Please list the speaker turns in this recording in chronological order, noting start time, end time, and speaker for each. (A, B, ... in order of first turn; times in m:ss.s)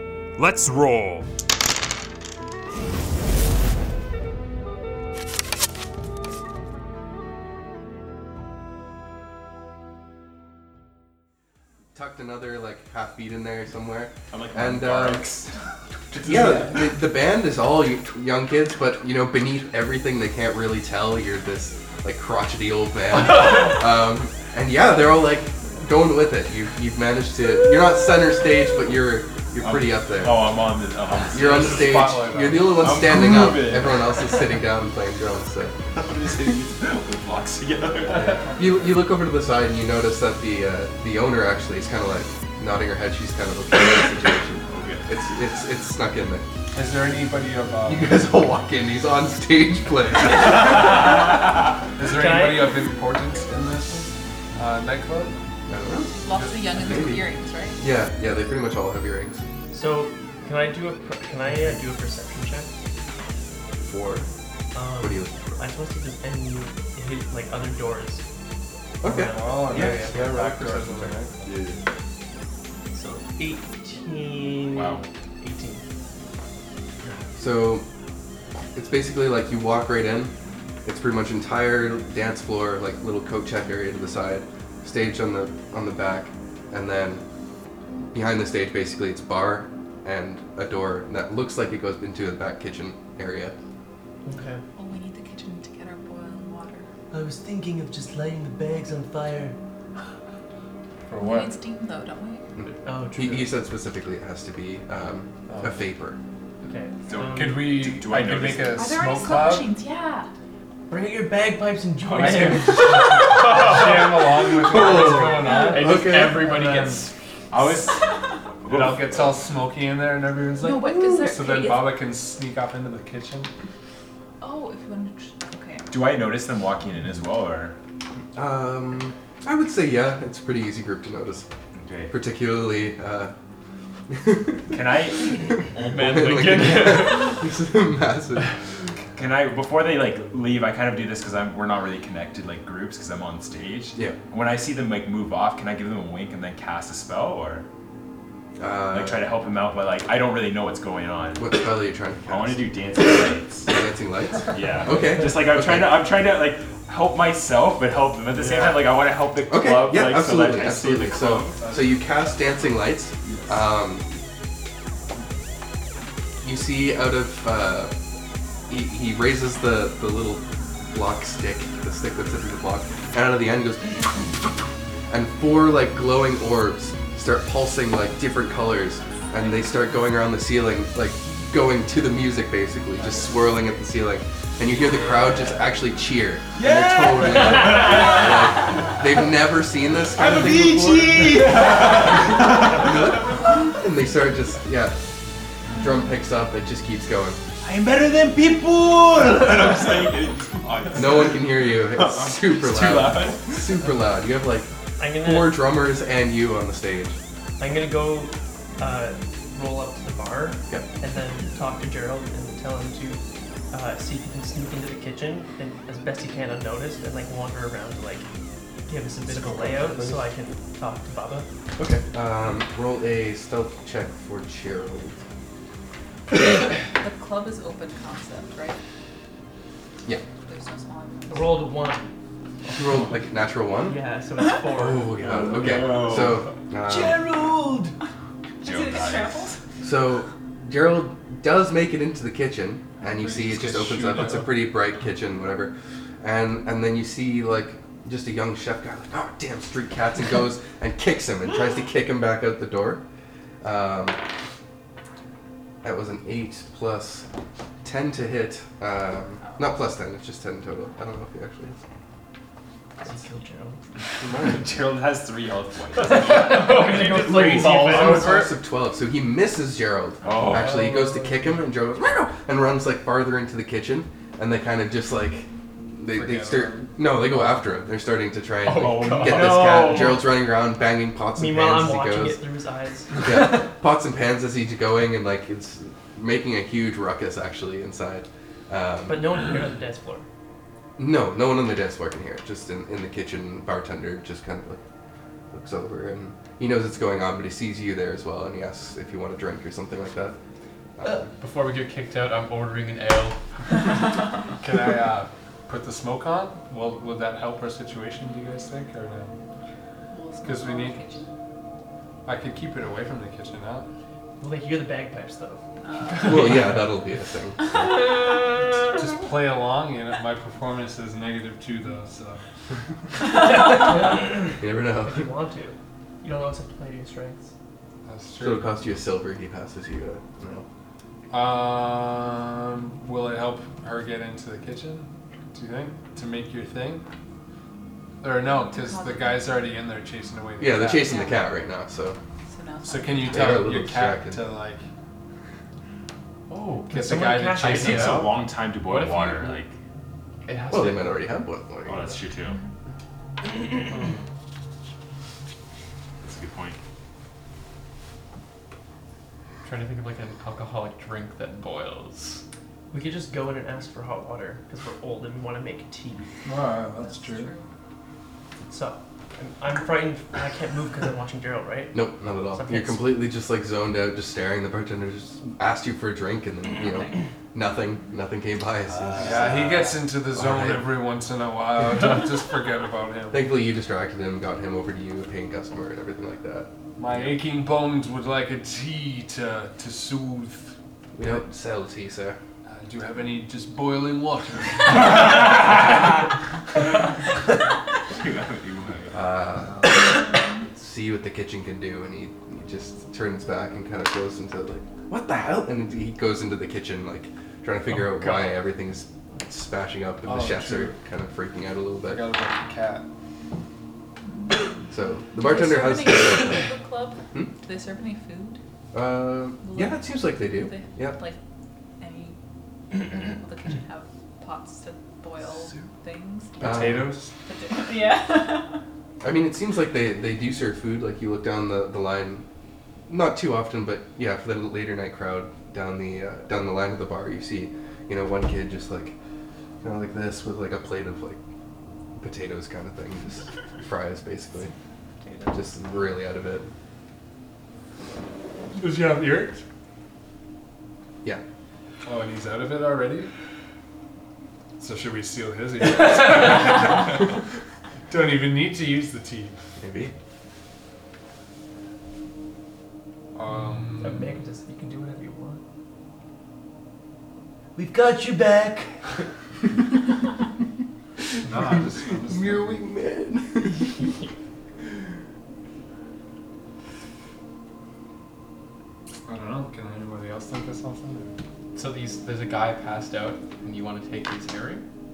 0:00.4-0:01.3 A
0:11.9-0:15.3 B
0:14.3-0:15.6 A
0:16.1-0:16.9 A
0:16.2-0:30.5 B
0:29.6-0:31.9 A
0:31.3-0:32.9 C
0:31.3-0:35.8 B
0:32.8-0:34.6 A
0:36.0-0:38.5 A
0:38.1-0:46.4 B
0:44.7-0:45.1 A
0:46.7-0:48.4 C
0:47.8-0:51.2 B
0:52.0-0:55.4 C
0:52.0-0:52.7 D
0:55.7-0:56.2 B
0:56.2-0:57.8 E
0:56.3-0:56.9 C
0:56.8-0:59.4 B
0:59.7-1:02.7 D
1:01.5-1:01.8 C
1:03.7-1:04.3 B
1:04.7-1:08.2 D
1:05.0-1:05.6 B
1:09.0-1:11.2 B
1:09.0-1:10.2 D
1:09.2-1:11.6 C
1:09.7-1:10.0 A
1:11.4-1:11.8 A
1:12.9-1:15.8 D
1:14.7-1:15.1 A
1:17.4-1:17.9 B
1:18.8-1:20.3 B
1:20.8-1:27.2 B
1:28.1-1:33.6 B
1:34.2-1:34.6 D
1:34.8-1:36.9 E
1:37.1-1:39.6 D
1:41.1-1:41.6 C
1:41.2-1:42.5 E
1:42.6-1:46.2 B
1:42.9-1:43.6 D
1:45.5-1:45.8 C
1:46.6-1:47.8 D
1:47.1-1:48.8 A
1:47.3-1:49.8 C
1:48.7-1:50.3 E
1:50.9-1:53.8 D
1:52.1-1:56.0 C
1:53.4-1:54.1 F
1:54.6-1:56.6 B
1:54.9-1:55.8 D
1:55.5-1:57.1 F
1:56.5-1:56.9 D
1:57.5-1:58.0 A
1:58.6-1:59.4 A
1:58.7-2:03.5 C
2:00.6-2:02.1 E
2:04.4-2:05.9 E
2:05.9-2:07.8 A
2:08.4-2:11.5 B
2:11.8-2:12.1 A
2:12.1-2:13.3 B
2:14.1-2:18.5 B
2:14.7-2:15.6 A
2:15.7-2:17.4 F
2:19.2-2:27.6 A
2:28.6-2:29.2 B
2:28.9-2:31.5 A
2:31.4-2:32.8 B
2:32.3-2:33.7 A
2:33.7-2:36.1 B
2:34.5-2:41.6 A
2:38.3-2:38.8 C
2:39.5-2:44.2 B
2:41.6-2:42.0 C
2:43.2-2:43.6 A
2:46.4-2:47.9 B
2:48.7-3:15.0 B
3:03.0-3:03.4 C
3:05.1-3:05.5 D
3:06.6-3:09.0 A
3:10.2-3:13.5 A
3:15.7-3:17.4 B
3:17.6-3:23.7 A
3:21.0-3:24.7 B
3:25.0-3:25.6 D
3:25.2-3:27.2 B
3:27.6-3:38.3 D
3:38.9-3:41.5 D
3:39.3-3:40.1 C
3:39.9-3:40.2 B
3:41.8-3:45.2 B
3:47.0-3:48.8 E
3:50.4-3:51.7 E
3:51.3-3:52.1 D
3:52.8-3:54.0 B
3:53.9-3:55.2 D
3:54.7-3:57.2 B
3:55.2-3:56.4 A
3:56.8-3:58.0 D
3:58.6-3:59.6 A
3:58.6-3:59.6 E
3:59.8-4:13.0 B
4:03.0-4:04.6 C
4:13.6-4:14.2 B
4:15.8-4:17.3 B
4:17.8-4:21.8 B
4:23.0-4:23.8 D
4:24.2-4:24.6 B
4:24.3-4:26.7 A
4:26.0-4:28.5 D
4:26.6-4:28.5 C
4:26.8-4:27.1 F
4:27.2-4:42.4 B
4:30.2-4:30.8 A
4:30.4-4:31.6 C
4:36.1-4:37.7 C
4:38.6-4:39.8 F
4:38.8-4:40.2 A
4:39.8-4:40.1 D
4:41.4-4:43.6 D
4:43.2-4:49.5 B
4:49.1-4:50.2 D
4:51.0-4:54.8 B
4:55.5-5:00.4 B
5:01.0-5:01.3 B
5:01.4-5:03.9 F
5:04.5-5:09.4 C
5:10.1-5:11.3 E
5:10.4-5:11.1 C
5:12.2-5:13.9 C
5:14.4-5:15.6 D
5:15.8-5:16.8 E
5:16.2-5:18.0 B
5:18.9-5:22.4 C
5:23.5-5:27.5 D
5:24.6-5:25.3 B
5:28.1-5:28.8 C
5:28.4-5:30.6 B
5:31.3-5:37.0 C
5:38.2-5:41.3 C
5:38.5-5:39.8 E
5:40.6-5:42.2 B
5:41.0-5:41.5 E
5:42.5-5:43.7 E
5:42.8-5:44.8 C
5:43.2-5:44.4 B
5:46.5-5:49.6 F
5:46.9-5:48.4 C
5:47.6-5:49.7 A
5:50.5-5:51.3 F
5:50.7-5:52.1 B
5:51.9-5:52.6 A
5:52.4-5:52.7 E
5:53.9-5:54.2 F
5:56.2-5:56.8 A
5:59.6-6:02.4 F
6:02.9-6:06.3 D
6:06.4-6:07.5 C
6:07.0-6:07.7 E
6:08.7-6:12.0 D
6:11.9-6:19.6 B
6:12.5-6:13.0 D
6:16.8-6:17.1 E
6:18.9-6:19.9 A
6:19.2-6:23.5 C
6:20.2-6:21.0 B
6:23.3-6:26.7 B
6:27.0-6:31.4 C
6:31.2-6:32.4 B
6:32.7-6:36.0 C
6:35.1-6:36.0 A
6:38.1-6:39.3 A
6:39.1-6:40.0 B
6:40.7-6:52.3 B
6:50.2-6:51.0 C
6:52.0-6:53.1 C
6:54.2-6:54.7 E
6:54.9-6:56.7 B
6:55.4-6:58.6 E
6:58.9-7:01.2 B
6:59.6-7:01.4 E
7:02.0-7:02.4 E
7:02.9-7:06.9 E
7:06.6-7:07.3 C
7:06.6-7:07.1 B
7:07.4-7:08.8 E
7:09.2-7:12.5 B
7:13.1-7:19.2 B
7:19.8-7:21.4 B
7:22.2-7:24.7 B
7:25.2-7:25.6 E
7:25.5-7:26.7 B
7:28.7-7:29.6 C
7:32.0-7:33.3 C
7:34.8-7:37.4 C
7:38.1-7:39.6 C
7:39.8-7:40.1 B
7:43.4-7:44.4 C
7:44.0-7:45.6 D
7:47.8-7:49.0 D
7:51.4-7:52.8 C
7:51.5-7:54.0 B
7:59.3-8:01.4 C
8:01.8-8:04.8 F